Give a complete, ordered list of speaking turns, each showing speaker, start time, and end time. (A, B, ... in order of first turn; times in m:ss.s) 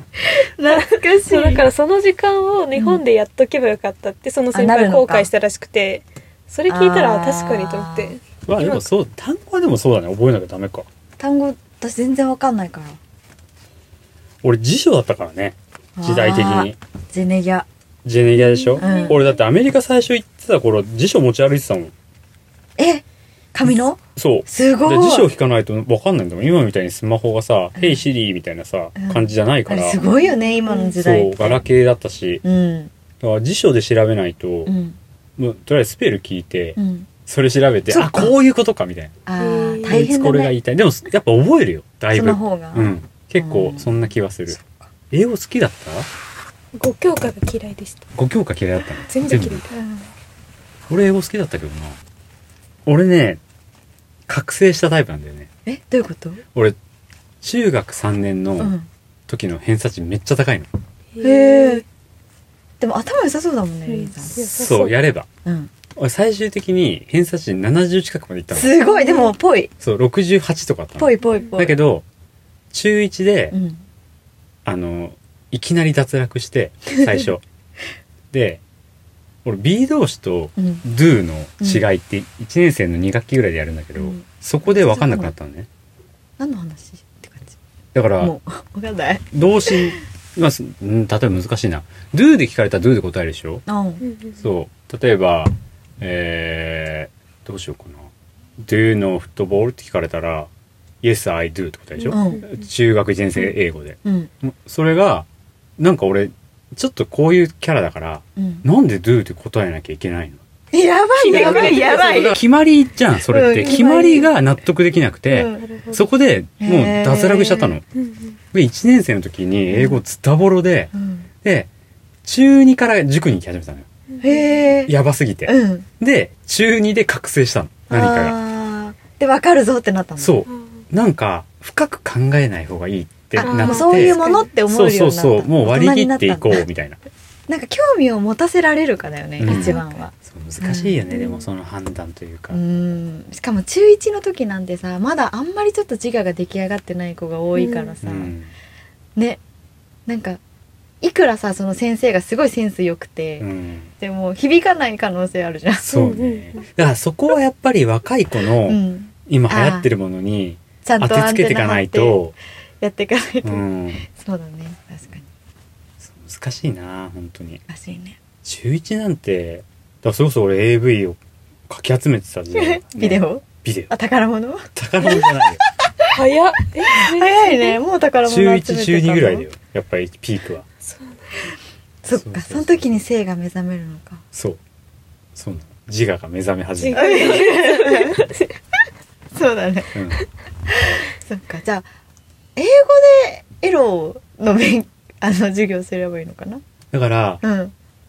0:00.3-0:01.6 A
0:00.7-0:08.8 B
0:02.8-0:03.0 A
0:04.5-0:05.3 A
0:06.7-0:08.2 A
0:08.5-0:10.9 C
0:11.2-0:13.0 A
0:14.4-0:16.8 C
0:16.0-0:17.7 A
0:18.0-0:21.9 C
0:18.4-0:19.3 B
0:18.8-0:19.2 A
0:22.8-0:25.3 A
0:24.1-0:30.0 C
0:29.0-0:31.6 A
0:31.0-0:32.4 C
0:32.4-0:32.9 A
0:33.2-0:34.7 C
0:34.6-0:35.0 A
0:35.4-0:39.1 C
0:36.8-0:37.1 A
0:37.9-0:38.4 A
0:39.2-0:40.5 A
0:39.4-0:40.1 B
0:39.9-0:44.6 C
0:42.1-0:44.9 A
0:45.1-0:46.1 C
0:46.7-0:48.1 B
0:48.1-0:49.6 C
0:49.1-0:49.7 B
0:49.7-0:50.1 A
0:50.9-0:52.0 C
0:52.8-0:53.4 C
0:54.3-0:55.5 C
0:55.6-0:56.4 A
0:57.4-0:58.7 C
0:58.6-0:58.9 A
0:59.3-1:00.7 C
1:01.2-1:01.8 B
1:01.2-1:01.8 A
1:02.8-1:04.4 A
1:03.9-1:04.9 B
1:04.4-1:05.3 C
1:05.4-1:05.7 A
1:06.0-1:08.8 C
1:08.5-1:09.7 A
1:08.9-1:09.3 B
1:09.8-1:12.0 C
1:11.0-1:11.8 A
1:12.7-1:13.6 C
1:13.5-1:13.8 A
1:14.6-1:17.4 C
1:18.3-1:18.6 C
1:19.4-1:25.7 C
1:20.6-1:20.8 A
1:21.6-1:21.8 A
1:24.0-1:25.3 A
1:26.4-1:27.6 A
1:27.9-1:28.3 C
1:28.2-1:30.0 A
1:29.3-1:33.6 C
1:33.6-1:34.0 A
1:34.0-1:34.4 B
1:34.4-1:38.1 C
1:38.6-1:40.5 C
1:41.0-1:45.3 C
1:42.0-1:42.4 B
1:42.1-1:42.4 A
1:44.0-1:44.3 A
1:45.8-1:50.4 C
1:48.4-1:48.6 A
1:50.7-1:52.4 A
1:51.2-1:52.3 B
1:51.3-1:57.8 C
1:53.3-1:54.3 A
1:53.6-1:54.2 B
1:55.3-1:55.6 A
1:55.7-1:56.0 B
1:56.6-1:57.8 A
1:58.0-1:58.3 B
1:58.5-2:00.9 C
1:59.7-2:00.0 A
2:00.9-2:01.3 A
2:01.4-2:01.7 C
2:02.2-2:03.9 C
2:04.1-2:04.6 B
2:04.2-2:04.9 A
2:04.8-2:08.4 C
2:05.4-2:05.8 A
2:07.9-2:10.4 A
2:10.2-2:17.0 C
2:13.4-2:16.6 A
2:13.4-2:14.4 B
2:17.5-2:21.3 A
2:19.4-2:22.6 C
2:19.5-2:19.8 B
2:22.5-2:28.3 A
2:27.6-2:27.9 B
2:28.0-2:28.5 C
2:30.0-2:30.4 A
2:31.0-2:33.5 A
2:33.4-2:33.9 C
2:34.0-2:35.9 A
2:35.8-2:42.4 C
2:35.9-2:36.6 B
2:38.6-2:39.9 A
2:40.8-2:42.2 A
2:42.8-2:45.3 A
2:43.4-2:44.0 C
2:46.0-2:47.6 C
2:47.7-2:48.2 A
2:48.4-2:53.9 C
2:52.5-2:56.2 A
2:54.7-2:55.6 C
2:56.1-2:57.8 B
2:56.8-2:59.4 A
2:58.2-3:00.7 C
3:00.8-3:01.3 B
3:02.0-3:04.2 A
3:02.1-3:03.0 C
3:04.3-3:04.6 C
3:05.4-3:07.4 C
3:06.8-3:08.5 B
3:06.9-3:08.3 A
3:09.3-3:09.9 A
3:09.9-3:10.2 C
3:10.6-3:11.9 A
3:12.6-3:16.6 A
3:16.9-3:17.4 C
3:17.4-3:17.7 A